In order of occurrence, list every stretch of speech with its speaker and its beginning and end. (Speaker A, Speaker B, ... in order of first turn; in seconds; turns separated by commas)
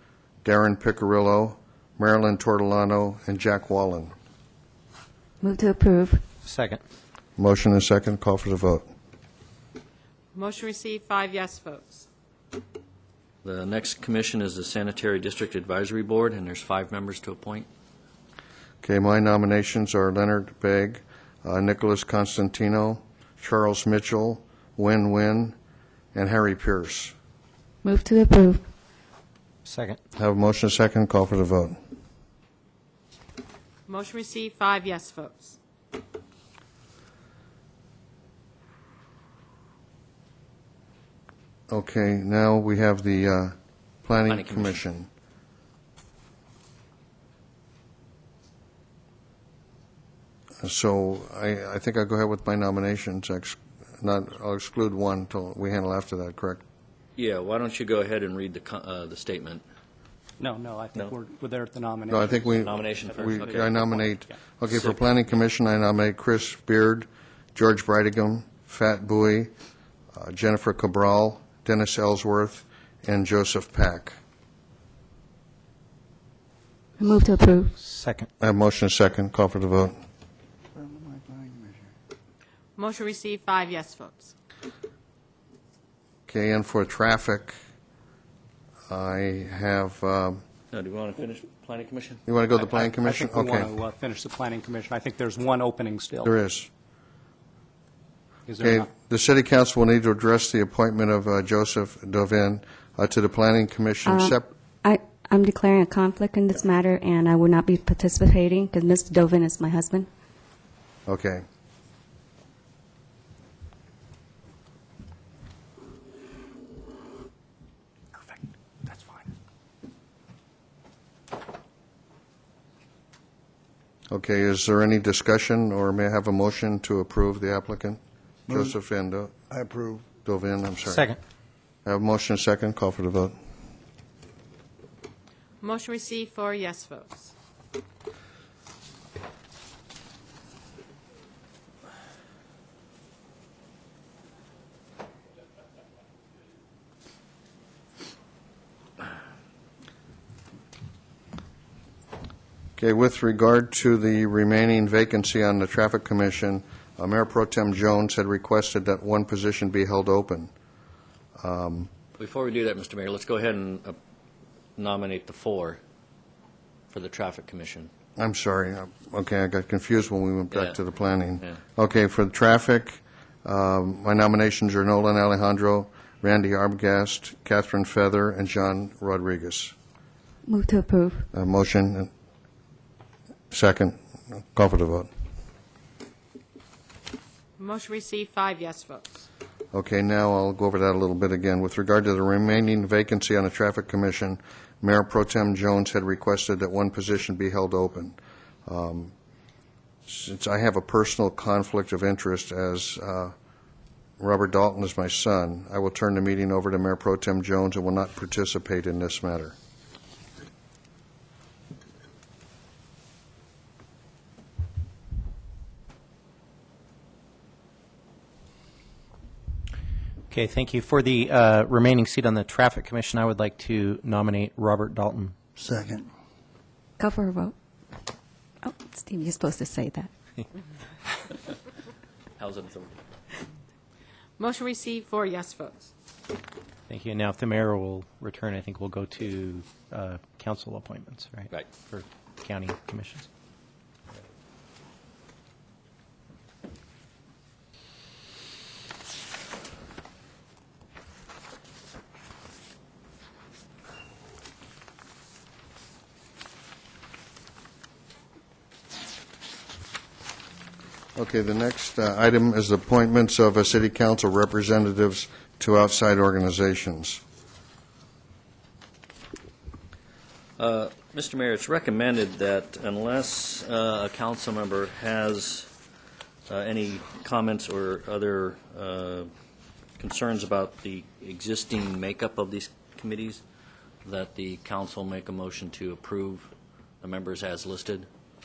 Speaker A: 0.4-4.1, Speaker B: 5.4-6.2, Speaker C: 6.4-6.8, Speaker A: 7.4-8.8, Speaker D: 10.3-12.1, Speaker E: 13.4-17.7, Speaker A: 18.8-25.6, Speaker A: 26.1-27.1, Speaker B: 27.8-28.7, Speaker C: 29.6-30.0, Speaker A: 30.2-31.8, Speaker D: 33.9-35.6, Speaker A: 41.7-45.1, Speaker E: 44.3-44.8, Speaker A: 50.6-56.6, Speaker E: 57.2-59.6, Speaker F: 60.4-62.5, Speaker A: 62.1-69.5, Speaker E: 62.6-63.8, Speaker F: 63.8-64.2, Speaker A: 70.1-74.2, Speaker B: 77.0-77.8, Speaker C: 77.8-78.3, Speaker A: 78.4-80.0, Speaker G: 80.8-81.7, Speaker D: 82.8-84.3, Speaker A: 86.3-87.5, Speaker A: 88.9-90.4, Speaker E: 90.7-92.2, Speaker A: 92.3-93.7, Speaker F: 92.9-96.3, Speaker A: 96.2-96.7, Speaker F: 98.5-98.9, Speaker A: 98.6-104.5, Speaker B: 104.1-110.1, Speaker A: 111.1-111.4, Speaker A: 124.1-129.3, Speaker G: 128.5-128.8, Speaker G: 129.5-130.1, Speaker A: 130.2-131.1, Speaker C: 130.8-131.2, Speaker A: 131.8-133.3, Speaker D: 135.6-137.3, Speaker A: 152.8-160.5, Speaker A: 161.4-161.9, Speaker E: 162.2-164.0, Speaker E: 164.8-165.8, Speaker E: 166.9-167.9, Speaker A: 168.2-179.7, Speaker B: 180.5-181.3, Speaker A: 181.3-182.1, Speaker A: 183.5-185.1, Speaker D: 187.6-189.2, Speaker A: 189.7-199.1, Speaker A: 200.1-203.3, Speaker A: 204.2-209.6, Speaker C: 220.3-225.3, Speaker G: 225.6-226.1, Speaker B: 227.0-227.5, Speaker B: 228.6-230.1, Speaker E: 232.4-232.9, Speaker D: 234.4-235.9, Speaker C: 236.9-243.3, Speaker A: 261.2-267.2, Speaker E: 270.6-275.7, Speaker E: 276.5-279.3, Speaker E: 280.0-283.4, Speaker E: 284.0-286.5, Speaker E: 287.0-288.1